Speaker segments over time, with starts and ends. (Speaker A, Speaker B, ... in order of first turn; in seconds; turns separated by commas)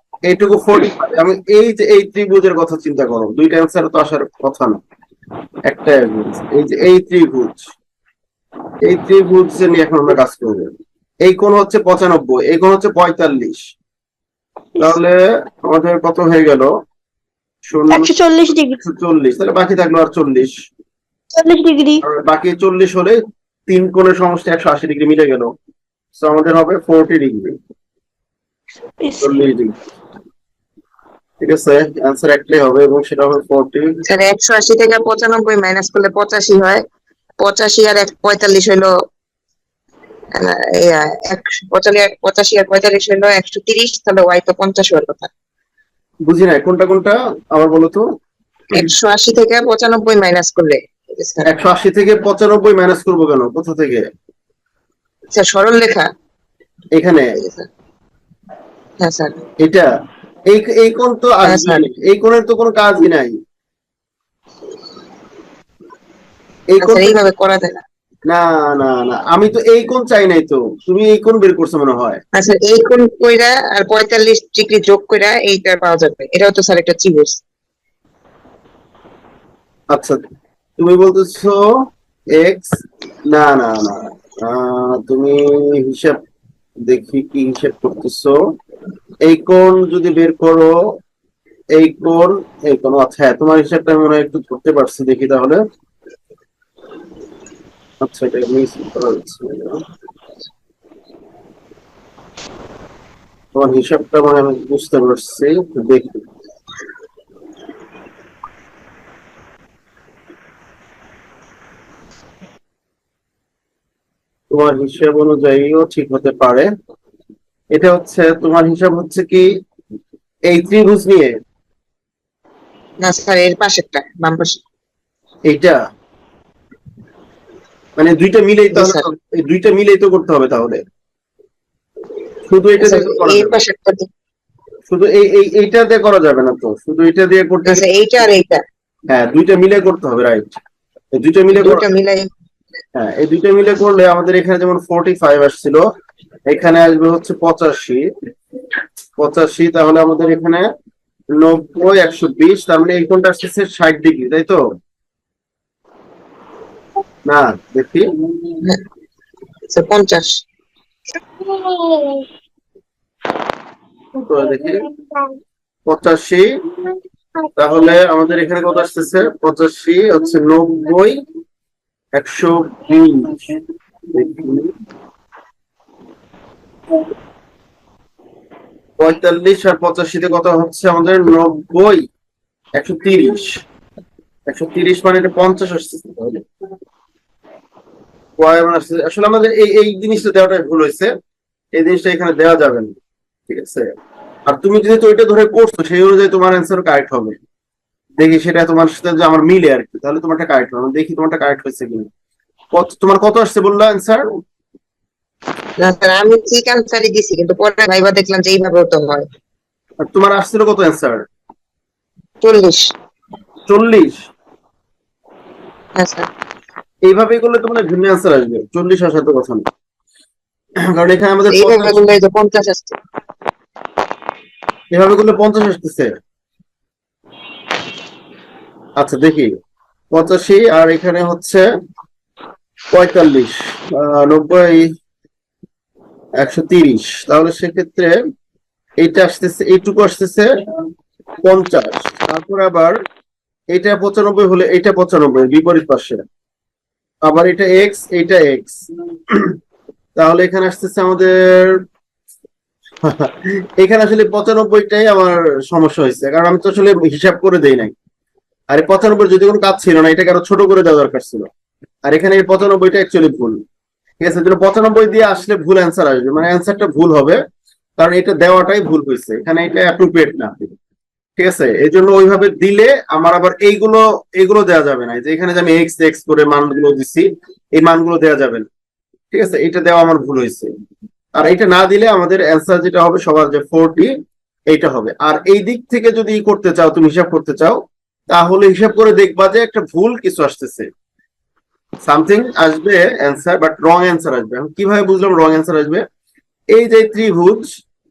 Speaker A: 0.3-4.8, Speaker A: 5.7-7.7, Speaker A: 8.8-10.7, Speaker A: 11.2-13.6, Speaker A: 14.8-16.7, Speaker A: 17.7-18.1, Speaker B: 17.9-18.8, Speaker A: 18.8-20.5, Speaker B: 21.3-22.0, Speaker A: 22.0-25.5, Speaker A: 26.1-27.6, Speaker B: 29.0-29.3, Speaker A: 29.2-29.8, Speaker A: 31.4-34.0, Speaker C: 34.1-36.8, Speaker C: 37.4-38.9, Speaker C: 40.3-45.3, Speaker A: 46.2-48.1, Speaker C: 48.7-51.5, Speaker A: 51.5-54.1, Speaker C: 55.3-56.1, Speaker A: 56.9-57.3, Speaker C: 57.4-57.7, Speaker C: 59.0-59.4, Speaker A: 59.6-59.9, Speaker A: 60.5-63.4, Speaker C: 61.4-61.8, Speaker A: 66.7-67.2, Speaker C: 66.8-67.8, Speaker A: 68.3-72.2, Speaker C: 72.3-77.4, Speaker A: 79.9-80.2, Speaker A: 80.8-81.6, Speaker A: 82.3-82.8, Speaker A: 83.3-86.2, Speaker A: 86.9-88.4, Speaker A: 89.2-90.8, Speaker A: 91.8-95.6, Speaker A: 98.0-99.8, Speaker A: 103.5-106.3, Speaker A: 114.5-116.7, Speaker A: 117.7-119.5, Speaker A: 120.5-121.3, Speaker C: 123.0-124.6, Speaker A: 125.5-125.8, Speaker A: 128.0-130.8, Speaker C: 128.7-129.0, Speaker A: 132.5-133.6, Speaker C: 132.8-134.1, Speaker A: 134.9-138.0, Speaker C: 137.7-138.6, Speaker A: 139.1-140.6, Speaker A: 141.1-141.8, Speaker C: 141.5-142.3, Speaker A: 142.9-145.8, Speaker A: 146.5-148.1, Speaker A: 149.2-150.7, Speaker A: 151.3-154.6, Speaker A: 157.2-158.1, Speaker C: 159.7-160.3, Speaker B: 161.6-162.2, Speaker A: 164.1-164.8, Speaker A: 165.9-166.5, Speaker A: 167.6-171.2, Speaker A: 172.1-173.6, Speaker A: 174.1-174.7, Speaker A: 179.0-182.1, Speaker A: 182.8-183.6, Speaker A: 184.5-186.4, Speaker A: 188.4-191.1, Speaker A: 191.7-192.9, Speaker A: 193.5-193.9, Speaker A: 194.5-197.4, Speaker A: 198.2-202.1, Speaker A: 202.7-204.3, Speaker C: 205.8-209.2, Speaker A: 210.0-211.2, Speaker C: 212.4-212.9, Speaker A: 213.7-214.2, Speaker C: 216.0-216.3, Speaker A: 217.1-219.6, Speaker A: 220.8-222.0, Speaker C: 221.5-223.0, Speaker A: 224.9-226.1, Speaker A: 229.0-229.5, Speaker A: 230.1-231.6, Speaker A: 232.9-234.9, Speaker A: 236.4-238.2, Speaker A: 239.0-240.5, Speaker A: 241.4-242.9, Speaker A: 243.7-246.2, Speaker A: 247.2-249.6, Speaker A: 250.2-251.8, Speaker A: 253.0-257.9, Speaker A: 258.7-261.5, Speaker A: 262.1-263.6, Speaker A: 264.2-267.4, Speaker A: 268.0-270.7, Speaker A: 271.4-278.7, Speaker A: 279.3-280.7, Speaker A: 281.3-284.1, Speaker A: 284.7-290.9, Speaker A: 292.0-296.0, Speaker A: 296.7-297.7